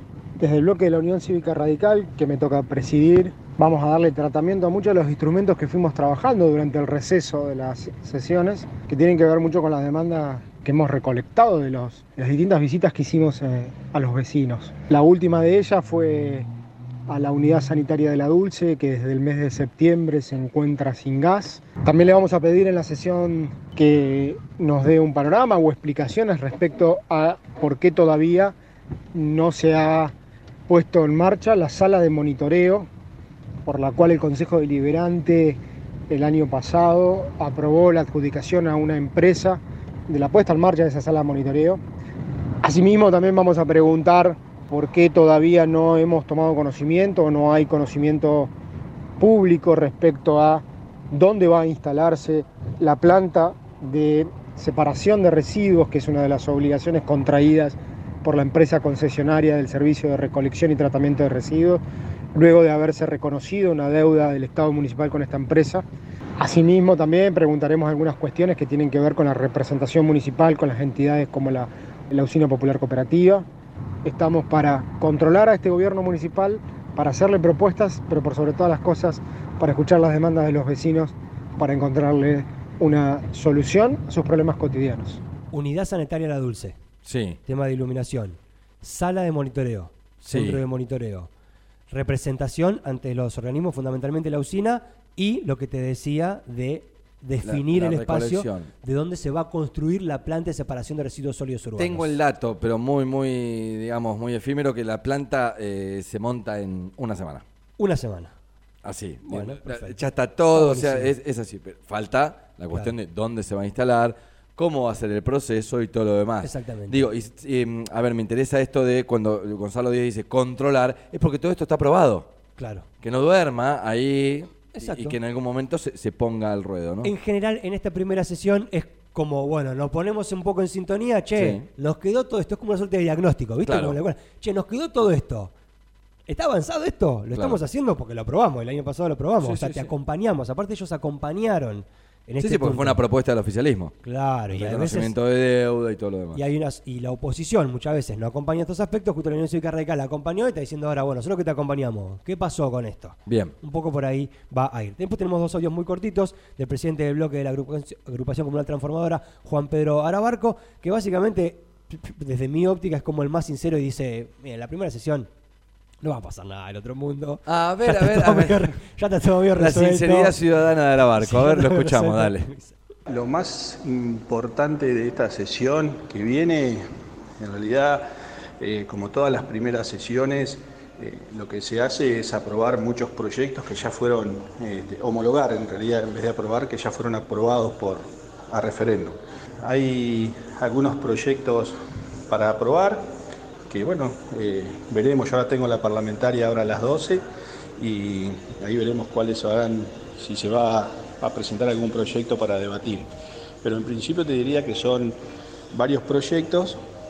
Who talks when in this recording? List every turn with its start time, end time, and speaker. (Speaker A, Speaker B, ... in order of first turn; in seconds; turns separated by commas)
Speaker A: 0.4-16.5, Speaker A: 17.1-28.6, Speaker A: 29.1-30.1, Speaker A: 30.7-32.9, Speaker A: 33.7-35.6, Speaker A: 36.1-41.8, Speaker A: 42.6-48.5, Speaker A: 49.2-61.8, Speaker A: 62.4-65.8, Speaker A: 66.4-73.5, Speaker A: 74.0-85.2, Speaker B: 85.5-86.8, Speaker C: 87.0-87.4, Speaker B: 87.5-91.3, Speaker C: 90.3-90.6, Speaker B: 91.9-102.2, Speaker C: 97.4-98.7, Speaker C: 101.8-107.4, Speaker B: 107.8-108.3, Speaker C: 108.8-122.3, Speaker B: 109.2-110.0, Speaker B: 110.5-111.1, Speaker B: 116.4-117.1, Speaker B: 122.6-122.9, Speaker C: 123.0-127.1, Speaker B: 124.8-125.2, Speaker B: 127.0-135.5, Speaker C: 131.4-131.6, Speaker C: 133.7-134.0, Speaker B: 136.3-143.0, Speaker C: 137.3-137.6, Speaker C: 139.4-139.9, Speaker C: 142.4-143.9, Speaker B: 144.0-145.2, Speaker C: 144.5-146.4, Speaker B: 146.3-165.3, Speaker C: 153.3-153.5, Speaker B: 166.0-170.4, Speaker C: 167.5-168.7, Speaker C: 169.6-172.5, Speaker B: 171.2-172.8, Speaker D: 173.1-176.8, Speaker D: 177.4-178.1, Speaker D: 178.6-191.7, Speaker D: 192.3-193.0, Speaker D: 193.7-197.2, Speaker D: 197.8-203.1, Speaker D: 203.6-205.2, Speaker D: 205.7-206.8